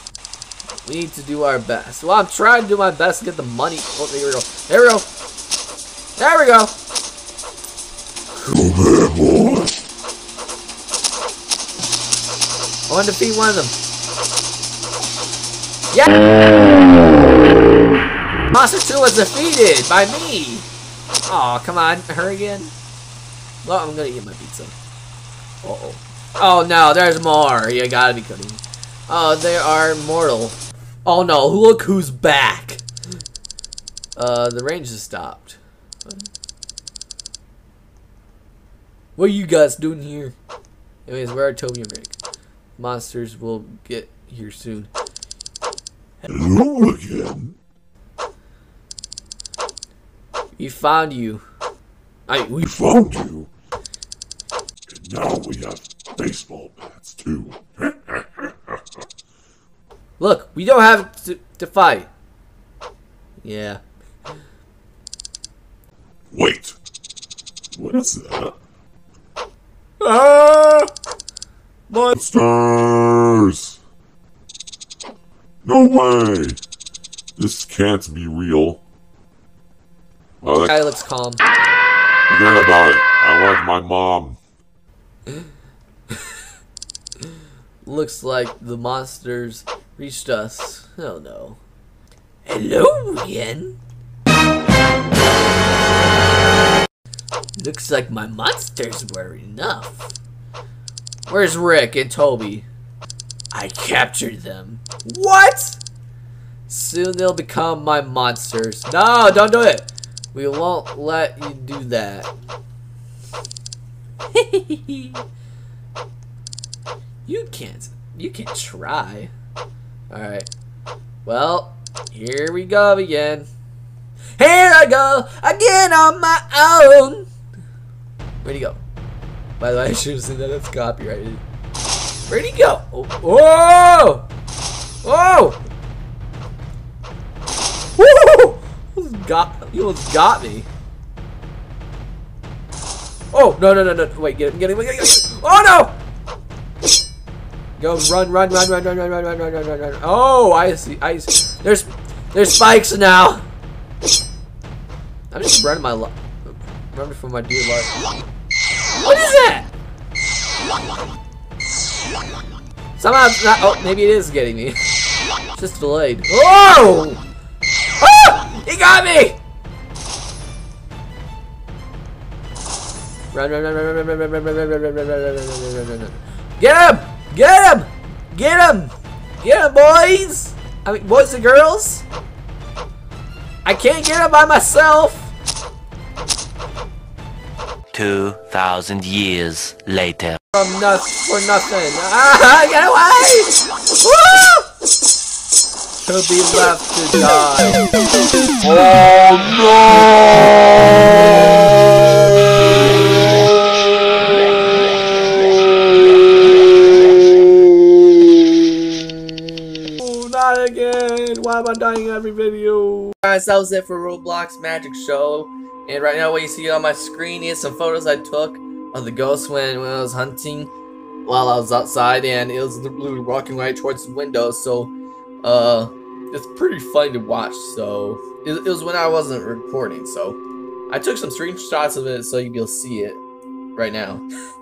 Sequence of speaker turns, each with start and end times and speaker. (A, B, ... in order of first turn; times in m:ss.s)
0:00.8-0:05.1 A
0:06.2-0:06.7 A
0:08.5-0:09.8 B
0:12.9-0:13.8 A
0:15.9-0:16.3 A
0:18.5-0:20.7 A
0:21.3-0:22.7 A
0:23.6-0:24.7 A
0:25.6-0:32.8 A
0:34.2-0:36.3 A
0:39.2-0:40.4 A
0:41.1-0:42.2 A
0:42.8-0:44.9 A
0:46.2-0:47.6 B
0:50.6-0:51.4 A
0:52.3-0:52.6 A
0:52.6-0:53.5 B
0:54.9-0:58.8 B
1:00.2-1:02.1 A
1:03.4-1:03.8 A
1:06.3-1:06.8 B
1:07.7-1:08.6 B
1:10.0-1:10.9 A
1:11.9-1:12.2 A
1:12.2-1:13.8 B
1:15.6-1:16.6 B
1:17.4-1:18.8 B
1:20.4-1:20.7 B
1:20.7-1:21.4 A
1:22.3-1:24.4 B
1:27.8-1:31.6 A
1:32.4-1:33.8 A
1:37.6-1:40.1 A
1:41.3-1:42.7 A
1:43.5-1:45.8 A
1:46.7-1:52.3 A
1:54.3-1:55.2 A
1:57.3-1:59.3 A
2:00.1-2:00.5 A
2:01.2-2:03.5 A
2:04.4-2:07.3 A
2:08.4-2:08.8 A
2:09.6-2:11.4 A
2:12.3-2:14.3 A
2:15.0-2:15.6 A
2:18.0-2:20.7 A
2:23.3-2:26.0 A
2:27.8-2:33.4 A
2:35.3-2:38.0 A
2:39.0-2:39.7 A
2:43.0-2:44.8 A
2:45.5-2:47.2 A
2:48.0-2:49.4 A
2:53.3-3:02.0 A
3:03.6-3:05.3 A
3:07.9-3:10.4 C
3:10.5-3:14.7 A
3:16.0-3:17.9 A
3:18.6-3:20.6 B
3:30.0-3:40.7 A
3:41.3-3:50.4 A
3:50.9-3:53.2 A
3:53.8-3:54.2 A